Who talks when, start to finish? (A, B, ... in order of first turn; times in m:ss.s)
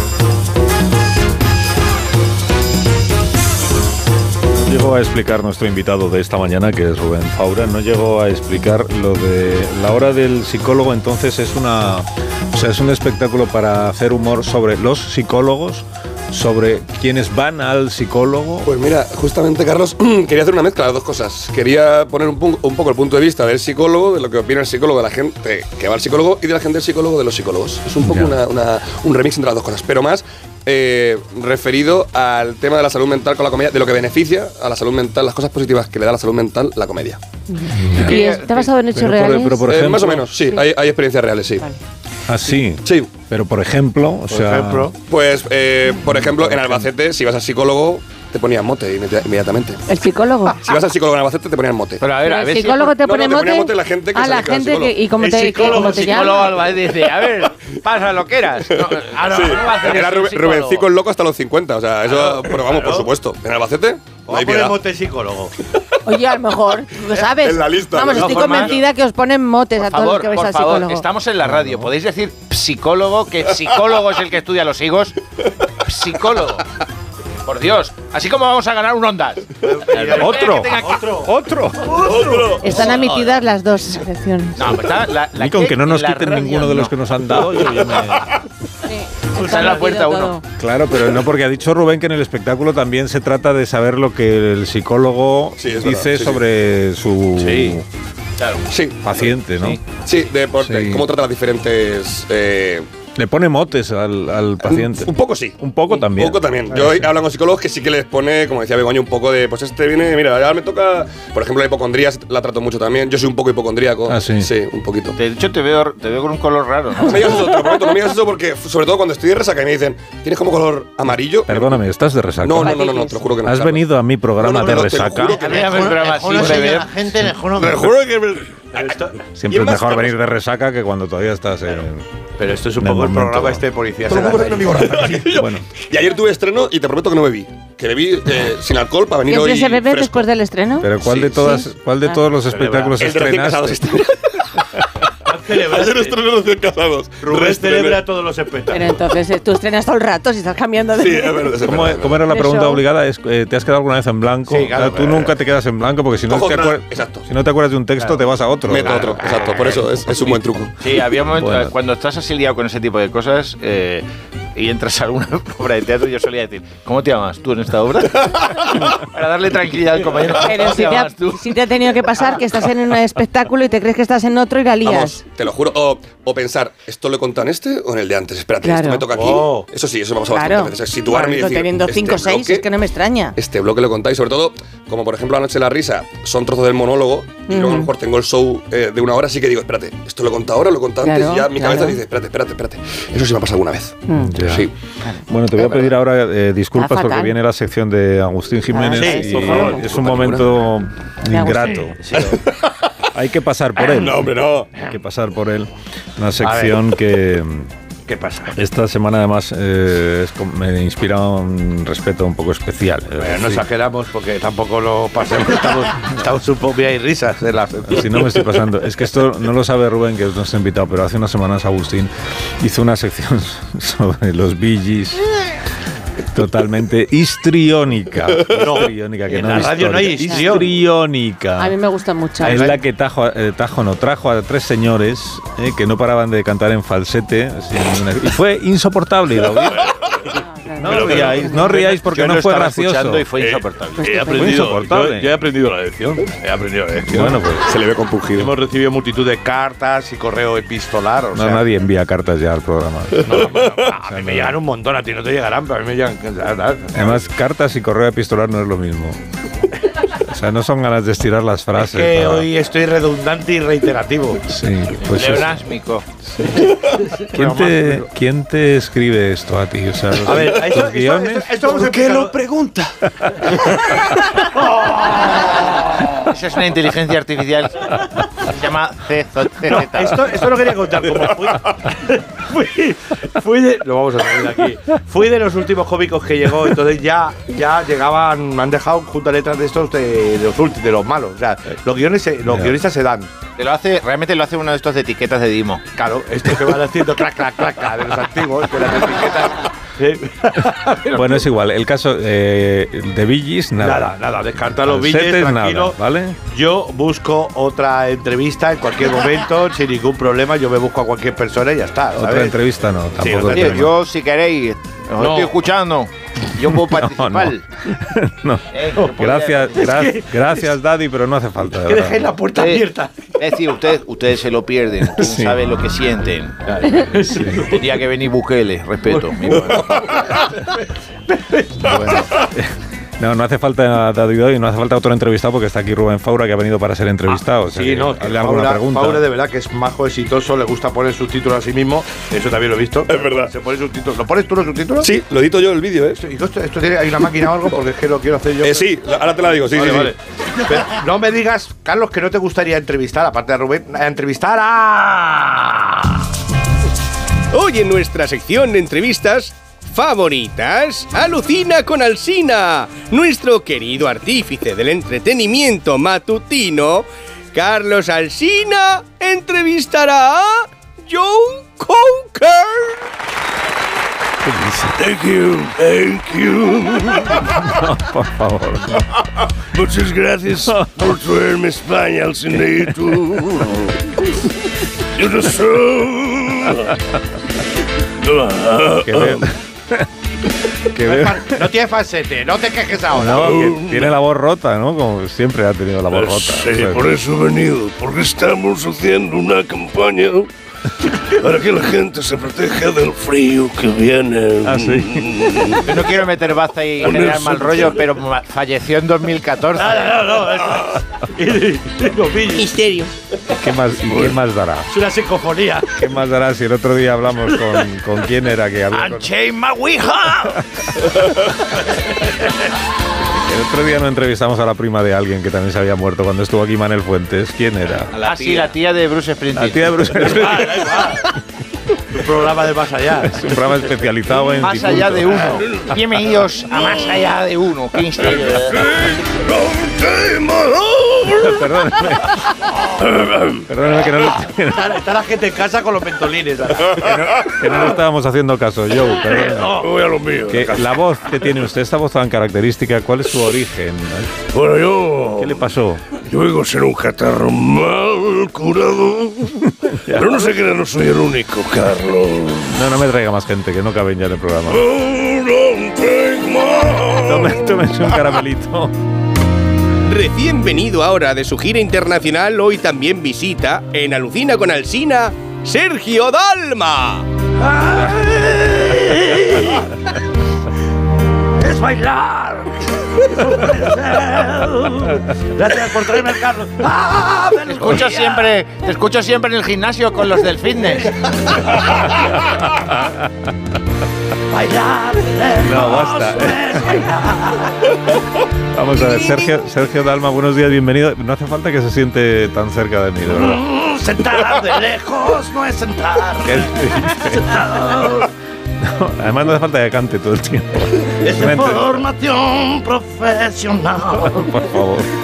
0:04.5-0:18.7 A
0:18.6-0:37.2 B
0:28.0-0:28.4 A
0:37.5-0:39.7 C
0:37.7-0:38.2 A
0:37.9-0:38.7 D
0:38.9-0:40.3 A
0:39.6-0:41.6 B
0:42.3-0:44.9 A
0:42.8-0:43.1 B
0:44.3-0:44.9 E
0:45.1-0:49.8 B
0:46.0-0:46.9 A
0:49.9-0:50.6 C
0:50.6-0:52.0 B
0:52.0-0:53.0 D
0:52.2-0:56.5 C
0:53.0-0:55.0 B
0:55.2-0:56.5 E
0:55.5-1:00.9 D
0:59.1-1:04.8 B
0:59.2-0:59.7 E
1:02.1-1:03.1 E
1:04.3-1:05.5 E
1:06.0-1:11.0 C
1:07.1-1:08.8 B
1:08.0-1:08.8 D
1:09.8-1:15.2 D
1:11.5-1:11.9 A
1:15.8-1:16.7 D
1:17.4-1:21.2 D
1:19.6-1:21.3 E
1:20.1-1:22.2 A
1:21.9-1:22.6 E
1:22.1-1:22.8 B
1:22.6-1:24.8 C
1:22.9-1:23.4 F
1:24.5-1:26.9 D
1:25.3-1:28.4 A
1:28.8-1:30.4 C
1:29.3-1:30.4 D
1:30.6-1:37.8 A
1:35.6-1:36.4 B
1:38.7-1:39.3 B
1:39.0-1:39.8 A
1:40.0-1:42.9 B
1:40.6-1:41.1 A
1:43.2-1:47.1 A
1:44.6-1:55.2 B
1:54.1-1:54.5 A
1:55.2-1:57.5 D
1:57.0-2:01.8 B
2:01.5-2:02.8 A
2:02.4-2:06.1 B
2:02.6-2:03.2 C
2:03.4-2:05.4 A
2:05.4-2:06.9 D
2:05.4-2:09.2 E
2:07.6-2:08.4 B
2:09.4-2:12.0 A
2:09.5-2:10.1 B
2:12.4-2:15.4 E
2:12.7-2:13.6 A
2:14.1-2:20.3 B
2:15.2-2:15.6 A
2:19.2-2:22.2 C
2:20.8-2:24.0 A
2:22.4-2:23.0 E
2:23.0-2:24.6 B
2:25.2-2:26.2 E
2:25.5-2:28.0 B
2:27.2-2:29.0 E
2:28.7-2:31.6 C
2:30.9-2:32.2 B
2:31.6-2:39.2 A
2:32.3-2:32.8 C
2:34.5-2:35.3 E
2:36.3-2:37.2 B
2:38.6-2:40.7 B
2:38.8-2:39.8 E
2:40.1-2:40.4 A
2:40.8-2:51.6 D
2:41.3-2:41.7 A
2:50.4-2:55.2 C
2:54.8-3:02.6 B
2:58.6-2:59.0 C
2:59.1-2:59.7 E
3:00.3-3:03.4 C
3:03.4-3:14.7 B
3:07.5-3:07.9 C
3:11.0-3:12.0 C
3:14.1-3:14.4 C
3:14.2-3:14.7 A
3:15.3-3:22.0 A
3:16.8-3:17.3 C
3:18.7-3:19.8 C
3:18.9-3:19.8 E
3:19.3-3:20.5 B
3:21.3-3:21.9 C
3:22.0-3:22.4 E
3:22.1-3:22.7 B
3:23.1-3:27.7 A
3:23.8-3:24.7 B
3:26.4-3:26.8 E
3:28.1-3:28.5 E
3:28.5-3:33.6 A
3:33.2-3:38.4 E
3:37.8-3:45.2 A
3:46.3-3:51.8 A
3:48.5-3:50.7 E
3:50.0-3:50.4 C
3:51.6-3:52.6 C
3:52.4-3:59.9 A
3:52.4-3:52.8 E
4:00.3-4:01.6 C
4:00.8-4:03.2 A
4:00.9-4:01.3 E
4:01.4-4:04.3 D
4:03.4-4:07.4 E
4:04.0-4:04.5 C
4:04.3-4:05.3 A
4:07.1-4:07.7 A
4:07.6-4:08.5 B
4:08.4-4:11.6 E
4:11.3-4:14.6 A
4:13.2-4:17.2 E
4:16.9-4:19.2 A
4:20.2-4:22.5 A
4:21.7-4:24.4 E
4:24.5-4:25.6 A
4:25.0-4:26.0 D
4:26.3-4:26.7 A
4:26.4-4:28.1 E
4:27.3-4:31.7 A
4:30.2-4:32.4 E
4:31.7-4:32.9 B
4:34.4-4:35.9 E
4:36.2-4:40.3 D
4:39.7-4:53.3 E
4:52.5-4:52.8 A
4:53.6-4:55.9 D
4:55.9-5:01.5 E
5:01.0-5:04.1 A
5:03.8-5:12.6 E
5:04.8-5:06.4 A
5:12.1-5:13.9 A
5:13.2-5:13.9 E
5:13.4-5:17.6 D
5:15.2-5:15.5 E
5:16.6-5:22.3 A
5:18.7-5:20.0 D
5:19.7-5:20.7 E
5:21.7-5:23.1 E
5:22.5-5:30.1 D
5:25.1-5:25.6 A
5:26.7-5:27.8 E
5:27.3-5:27.7 A
5:29.1-5:30.7 E
5:31.3-5:32.3 E
5:31.8-5:39.2 A
5:37.6-5:45.1 E
5:43.1-5:43.5 B
5:45.0-5:46.2 B
5:46.2-5:48.9 E
5:48.6-5:50.1 B
5:49.7-5:56.1 E
5:57.5-6:13.1 F
6:14.4-6:15.0 A
6:15.0-6:17.5 G
6:17.4-6:19.1 A
6:19.7-6:23.9 G
6:25.1-6:26.9 G
6:28.2-6:29.5 G
6:29.0-6:30.1 A
6:30.9-6:31.7 A
6:31.0-6:33.7 E
6:33.1-6:37.1 A
6:33.4-6:34.1 G
6:36.1-6:40.5 G
6:41.2-6:46.0 G
6:44.6-6:45.6 A
6:45.8-6:50.2 D
6:47.0-6:48.1 G
6:49.8-6:52.9 E
6:53.5-6:54.9 A
6:54.1-6:54.4 G
6:54.9-6:56.0 E
6:56.0-6:59.3 A
6:59.5-7:00.1 D
7:00.6-7:01.5 A
7:03.4-7:08.2 A
7:08.1-7:10.3 D
7:09.5-7:11.3 A
7:10.1-7:11.3 E
7:12.1-7:13.4 E
7:13.2-7:15.9 A
7:14.6-7:18.7 D
7:16.7-7:17.1 G
7:18.2-7:21.6 G
7:21.2-7:22.5 A
7:23.0-7:23.6 G
7:23.7-7:25.0 A
7:24.7-7:27.7 E
7:26.9-7:29.9 A
7:29.2-7:31.0 G
7:30.5-7:34.4 A
7:34.5-7:35.6 G
7:35.4-7:36.0 A
7:36.2-7:42.8 G
7:39.8-7:40.5 A
7:42.7-7:44.8 A
7:44.7-7:48.4 G
7:47.2-7:48.9 A
7:50.0-7:57.3 F
7:57.6-7:59.8 E
8:01.6-8:08.5 E
8:07.6-8:11.2 D
8:10.8-8:11.8 E
8:12.7-8:13.2 A
8:14.5-8:17.9 E
8:15.6-8:17.2 A
8:18.7-8:23.6 A
8:23.3-8:28.3 E
8:26.4-8:28.2 A
8:28.8-8:32.1 A
8:31.2-8:34.5 E
8:34.1-8:35.1 A